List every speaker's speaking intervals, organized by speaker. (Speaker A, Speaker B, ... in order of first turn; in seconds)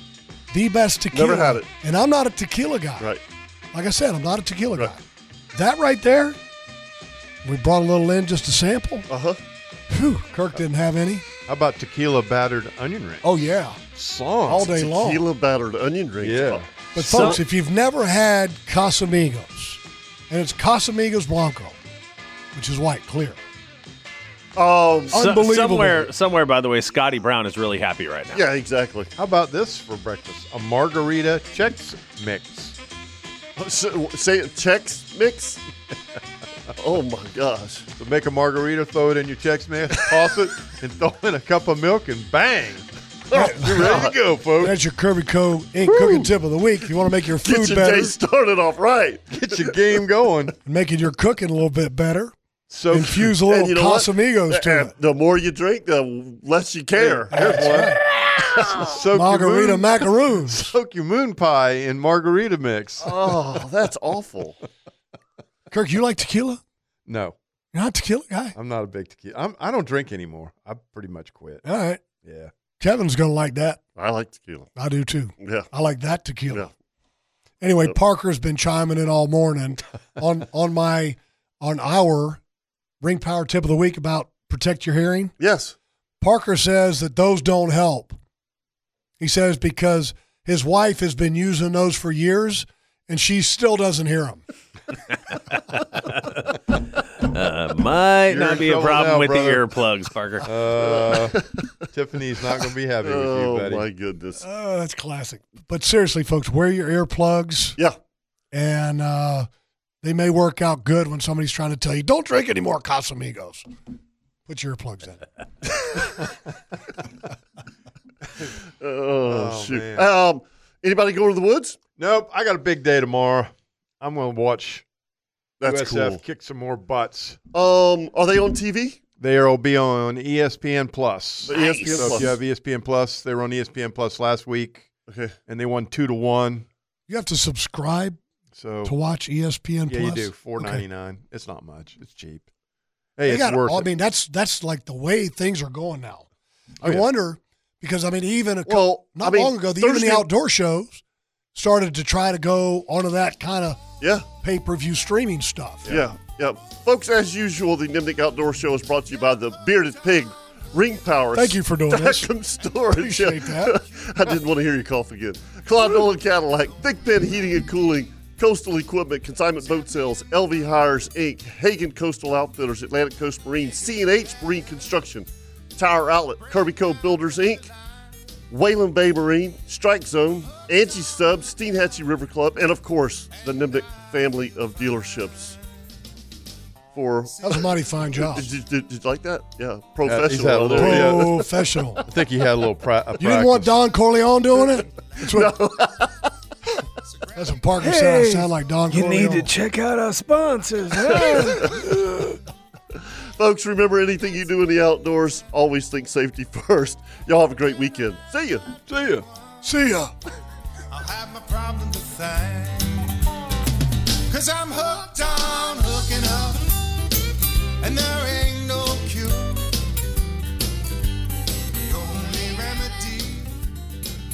Speaker A: 0.5-3.1, 3.7-5.0, 5.5-6.4, 7.4-9.1, 9.9-11.2, 13.2-13.8, 14.4-15.2, 16.9-21.8, 22.5-23.4, 25.1-26.1, 43.3-44.0, 44.6-48.1, 50.6-52.3, 52.9-54.9, 57.3-58.0, 59.1-60.7, 65.7-66.6, 67.7-68.5, 71.6-72.0, 72.8-73.8, 74.8-76.7, 77.6-82.4, 83.0-85.3, 86.2-88.2, 89.2-94.4, 104.4-107.8, 108.5-109.5, 110.0-113.7, 114.5-115.7, 137.1-138.2, 138.8-140.8, 143.3-146.3, 146.8-151.0, 151.5-153.8, 154.4-156.0, 161.3-162.3, 162.9-163.8, 187.4-188.5, 190.8-192.1, 193.2-195.6, 197.3-199.5, 200.9-201.6, 209.6-210.1
Speaker B: 1.1-1.7, 9.1-9.4, 14.6-16.7, 24.6-25.2, 28.3-29.1, 33.6-35.6, 36.8-37.9, 43.3-44.1, 45.8-46.3, 47.4-49.8, 53.4-57.3, 63.0-64.6, 74.0-74.7, 75.4-75.7, 85.4-85.7, 100.7-101.8, 103.0-104.4, 118.8-121.8, 125.6-126.2, 127.5-129.0, 131.4-132.3, 135.1-135.3, 148.7-150.3, 154.0-154.2, 155.8-177.7, 178.5-185.6, 186.9-187.6, 188.3-191.4, 195.3-196.3, 202.9-208.6
Speaker C: 11.5-13.2, 13.9-14.7, 16.2-16.7, 29.1-32.8, 38.0-42.9, 43.6-44.8, 49.3-50.5, 52.7-53.3, 57.0-63.3, 67.1-67.3, 68.5-71.6, 72.2-72.5, 98.3-99.7, 100.4-103.8, 119.2-120.1, 122.0-124.8, 125.6-127.4, 129.2-134.9, 135.5-136.7, 138.5-138.9, 139.9-142.4, 143.2-143.9, 146.8-147.1, 190.0-191.5, 192.0-193.8, 198.9-201.6, 208.9-209.2
Speaker D: 16.9-17.4, 25.1-28.4, 97.2-100.5
Speaker E: 210.9-213.3, 214.3-216.8, 217.8-219.8, 221.8-223.6